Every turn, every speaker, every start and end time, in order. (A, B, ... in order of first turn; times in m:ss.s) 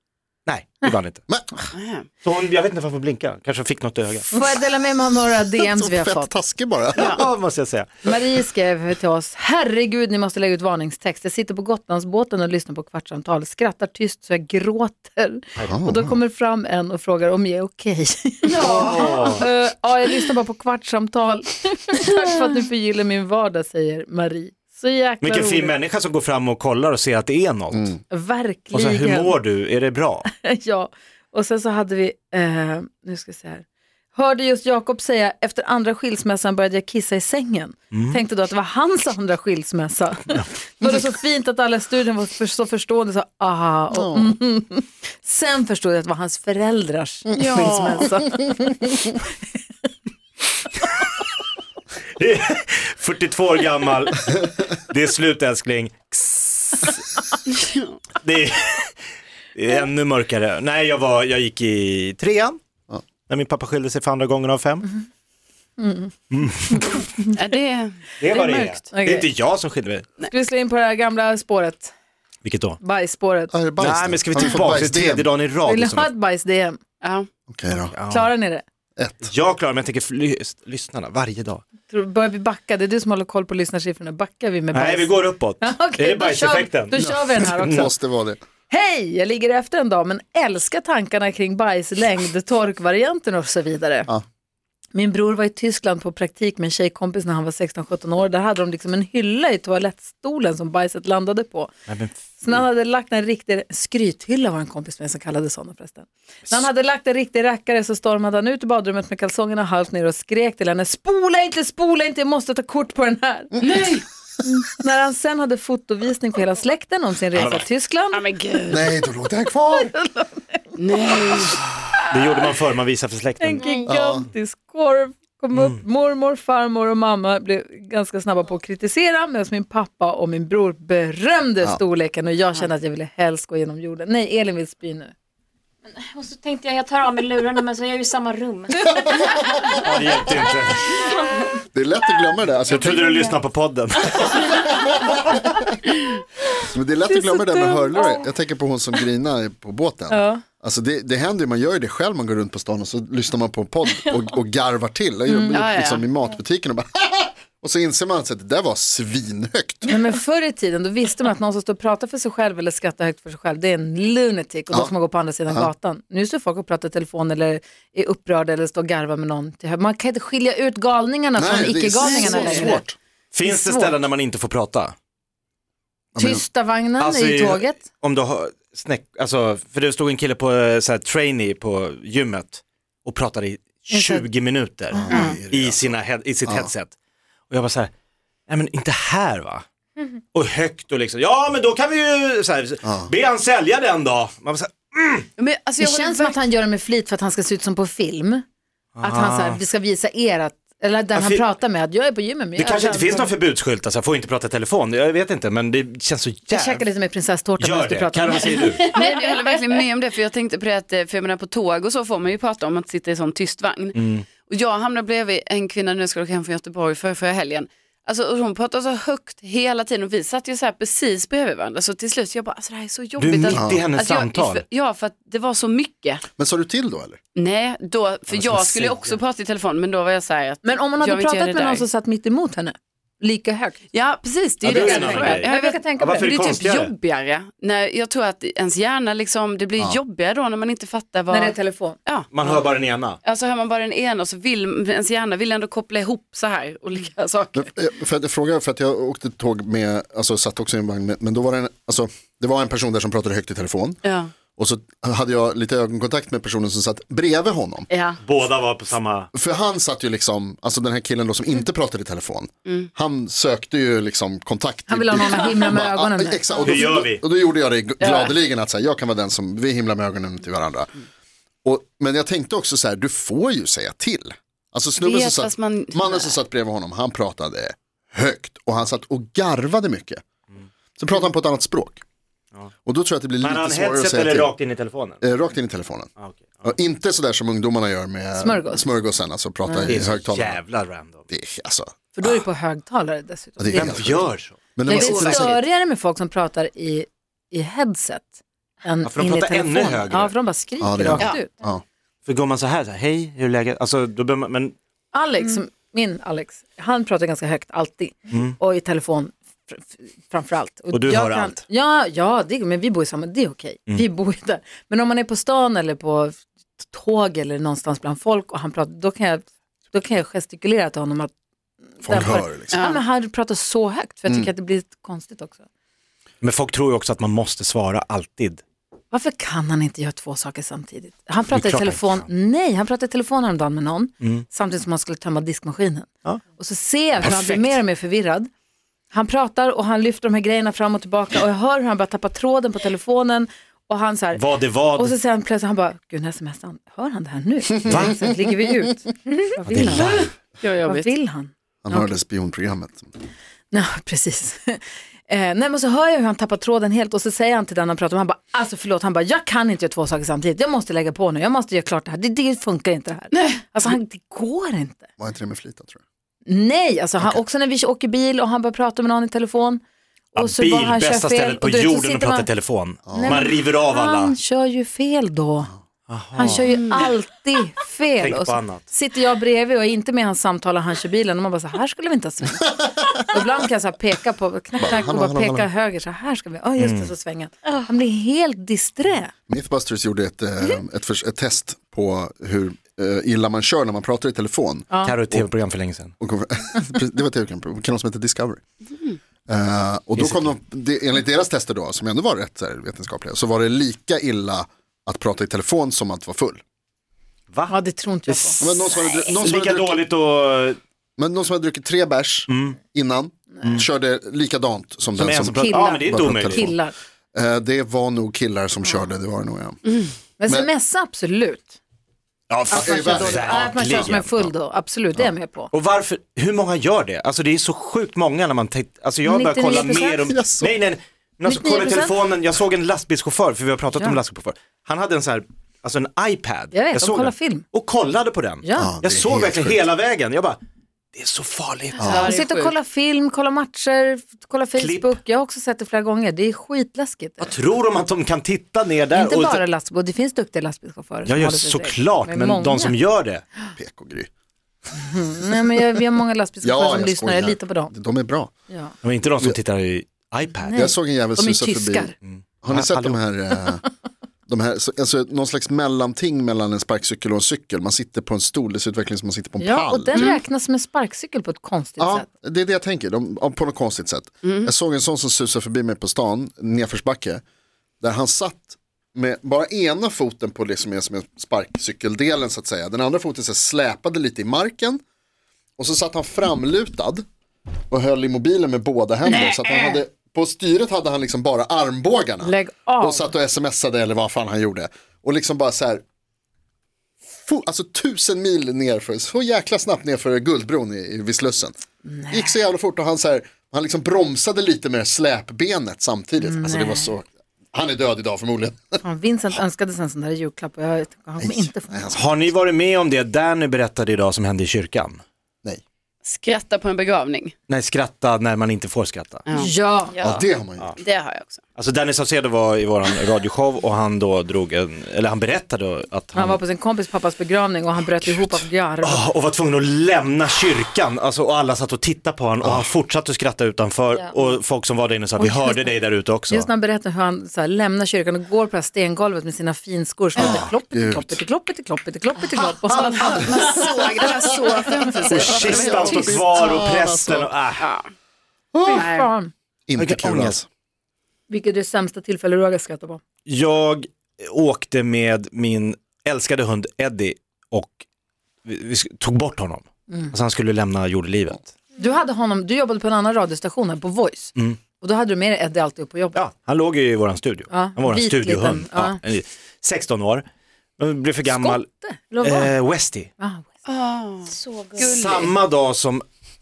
0:00.5-0:01.2 A
0:01.7-0:02.1 B
0:02.2-0:04.4 A
0:04.3-0:06.3 C
0:05.6-0:07.2 D
0:07.0-0:08.1 A
0:08.0-0:25.8 C
0:15.6-0:16.2 D
0:18.5-0:19.3 B
0:18.6-0:19.5 A
0:25.2-0:28.0 A
0:27.7-0:28.0 D
0:28.1-0:29.4 C
0:28.7-0:30.3 A
0:30.2-0:49.3 C
0:37.9-0:38.2 A
0:43.9-0:44.4 D
0:47.3-0:48.2 B
0:52.2-0:57.1 A
0:57.5-0:58.0 B
0:58.2-0:59.0 A
0:59.6-1:02.6 A
1:03.3-1:04.9 A
1:05.8-1:06.1 C
1:06.3-1:06.9 A
1:06.7-1:07.3 C
1:07.3-1:08.5 B
1:08.2-1:10.1 A
1:08.3-1:09.3 C
1:10.3-1:11.9 C
1:12.4-1:12.8 A
1:12.8-1:13.5 C
1:13.5-1:15.3 D
1:13.8-1:16.1 A
1:15.7-1:16.8 C
1:17.0-1:17.3 B
1:17.5-1:17.9 D
1:17.9-1:18.3 A
1:18.1-1:18.6 C
1:19.0-1:19.3 D
1:19.2-1:21.6 A
1:21.9-1:27.9 C
1:24.7-1:27.8 A
1:27.0-1:28.4 D
1:28.7-1:34.1 C
1:34.9-1:41.7 C
1:41.9-1:42.6 A
1:42.4-1:53.7 C
1:53.6-1:54.0 B
1:54.4-1:58.2 C
1:57.4-1:57.6 A
1:58.1-1:58.9 B
1:58.7-1:59.9 D
1:59.6-2:00.7 C
2:00.8-2:01.6 B
2:01.4-2:02.4 C
2:02.1-2:03.7 A
2:03.4-2:15.1 C
2:03.9-2:04.3 D
2:05.5-2:05.8 A
2:15.9-2:19.8 E
2:18.9-2:19.3 D
2:19.8-2:21.0 A
2:21.7-2:23.1 D
2:22.6-2:24.6 A
2:24.4-2:24.8 D
2:26.6-2:39.9 D
2:30.1-2:30.4 C
2:35.3-2:35.6 C
2:35.5-2:36.0 B
2:39.9-2:52.8 C
2:51.4-2:53.0 D
2:52.0-2:52.8 B
2:53.3-2:54.9 A
2:53.4-2:54.0 C
2:56.1-2:56.4 D
2:56.2-2:57.8 C
2:57.0-3:06.9 A
3:03.9-3:04.2 C
3:04.9-3:05.9 D
3:05.1-3:05.4 C
3:06.4-3:06.7 D
3:07.5-3:07.9 A
3:08.5-3:09.6 A
3:10.3-3:15.3 A
3:12.8-3:13.1 D
3:15.4-3:16.4 B
3:15.8-3:18.4 C
3:19.0-3:19.6 A
3:19.0-3:23.3 C
3:21.1-3:21.4 A
3:22.6-3:26.8 A
3:26.5-3:29.3 C
3:27.6-3:28.9 A
3:28.9-3:46.2 B
3:33.9-3:34.3 A
3:43.2-3:44.6 A
3:43.5-3:43.8 D
3:46.4-3:47.2 D
3:47.4-3:51.8 B
3:48.3-3:49.2 A
3:50.6-3:53.8 C
3:53.9-4:02.3 B
3:54.6-3:56.9 A
3:54.7-3:56.3 C
4:01.3-4:02.0 C
4:02.3-4:03.2 A
4:03.2-4:07.7 B
4:07.5-4:14.0 D
4:14.0-4:14.3 B
4:14.6-4:17.9 D
4:18.2-4:19.3 A
4:19.3-4:30.9 D
4:24.9-4:26.4 C
4:26.6-4:27.2 A
4:28.0-4:28.3 B
4:31.6-4:40.2 D
4:35.0-4:36.4 B
4:41.0-4:42.0 D
4:42.8-4:44.5 D
4:43.4-4:45.2 A
4:45.2-4:46.1 D
4:46.2-4:46.7 A
4:46.6-4:50.6 D
4:48.4-4:48.9 C
4:49.7-4:51.2 A
4:51.3-4:52.4 D
4:52.2-4:54.1 C
4:53.6-4:55.6 D
4:53.7-4:55.0 A
4:54.9-5:01.5 C
4:54.9-4:55.5 B
4:59.0-5:00.3 A
5:00.8-5:01.8 D
5:02.2-5:04.8 A
5:05.1-5:21.3 C
5:08.3-5:08.6 A
5:10.9-5:11.6 A
5:22.0-5:25.6 C
5:22.0-5:22.8 D
5:22.7-5:23.0 B
5:26.4-5:28.6 A
5:29.1-5:38.5 C
5:31.5-5:32.2 A
5:37.2-5:37.8 A
5:39.1-5:50.2 C
5:44.4-5:45.2 A
5:47.9-5:48.2 A
5:49.6-5:50.3 A
5:50.0-5:51.1 B
5:50.8-5:52.1 C
5:51.8-5:53.1 D
5:53.7-6:05.0 C
6:03.3-6:03.6 B
6:05.2-6:06.0 D
6:06.5-6:09.8 C
6:10.3-6:12.5 C
6:10.4-6:14.4 A
6:13.1-6:13.5 D
6:13.1-6:15.7 C
6:16.1-6:16.7 A
6:16.4-6:29.3 C
6:16.7-6:17.0 B
6:18.2-6:18.8 A
6:24.8-6:25.7 D
6:26.8-6:27.1 A
6:29.5-6:35.5 D
6:34.9-6:35.2 C
6:35.0-6:36.1 A
6:36.2-6:38.6 D
6:39.5-6:46.6 D
6:40.2-6:40.5 A
6:47.5-6:47.8 A
6:47.7-6:49.1 C
6:48.3-6:48.6 A
6:48.6-6:50.0 D
6:49.4-6:50.8 A
6:51.2-6:56.8 D
6:52.5-6:52.8 A
6:55.1-6:56.7 A
6:55.5-6:56.9 C
6:57.3-6:59.8 D
7:00.4-7:01.8 C
7:02.5-7:04.1 D
7:02.7-7:04.5 A
7:02.7-7:05.7 C
7:05.7-7:20.6 A
7:09.2-7:10.3 C
7:10.2-7:10.8 D
7:11.4-7:12.2 C
7:16.7-7:17.6 C
7:18.6-7:19.0 C
7:18.8-7:19.9 D
7:21.1-7:22.2 A
7:22.0-7:22.3 D
7:22.0-7:22.7 B
7:22.1-7:27.5 C
7:24.8-7:25.2 A
7:27.4-7:29.6 A
7:29.1-7:33.0 C
7:31.2-7:33.4 A
7:33.8-7:34.3 D
7:35.0-7:37.9 C
7:36.6-7:38.5 D
7:38.7-7:39.0 C
7:39.0-7:40.9 A
7:40.6-7:42.1 C
7:40.7-7:43.8 D
7:42.2-7:43.2 A
7:44.5-7:50.3 D
7:49.6-7:52.3 C
7:52.0-7:57.4 D
7:54.4-7:54.7 B
7:58.0-8:05.0 D
8:05.8-8:07.2 D
8:07.9-8:16.0 D
8:09.5-8:10.0 B
8:12.4-8:13.3 C
8:17.3-8:29.0 D
8:22.0-8:22.5 C
8:26.4-8:27.1 C
8:29.0-8:32.2 C
8:31.4-8:32.3 D
8:32.1-8:35.2 A
8:36.2-8:37.5 B
8:37.7-8:39.5 A
8:39.5-8:40.5 B
8:39.6-8:40.1 C
8:40.2-8:41.0 D
8:41.0-8:41.6 B
8:41.8-8:46.6 A
8:46.4-8:49.2 C
8:48.3-8:56.7 A
8:52.6-8:52.9 D
8:55.4-8:55.9 C
8:56.5-9:03.9 C
9:00.4-9:01.4 D
9:03.0-9:06.8 B
9:05.2-9:07.9 A
9:05.3-9:07.5 D
9:07.8-9:08.0 B
9:08.7-9:09.1 D
9:08.9-9:09.3 B
9:08.9-9:09.5 C
9:09.9-9:10.6 D
9:10.0-9:10.6 A
9:11.5-9:13.2 C
9:13.5-9:18.0 A
9:18.6-9:21.7 A
9:22.0-9:26.4 C
9:26.3-9:30.4 A
9:27.7-9:29.2 C
9:31.0-9:31.9 A
9:31.4-9:32.8 C
9:32.4-9:33.3 A
9:33.4-9:33.7 C
9:33.9-9:35.5 B
9:34.5-9:35.1 E
9:35.0-9:36.2 A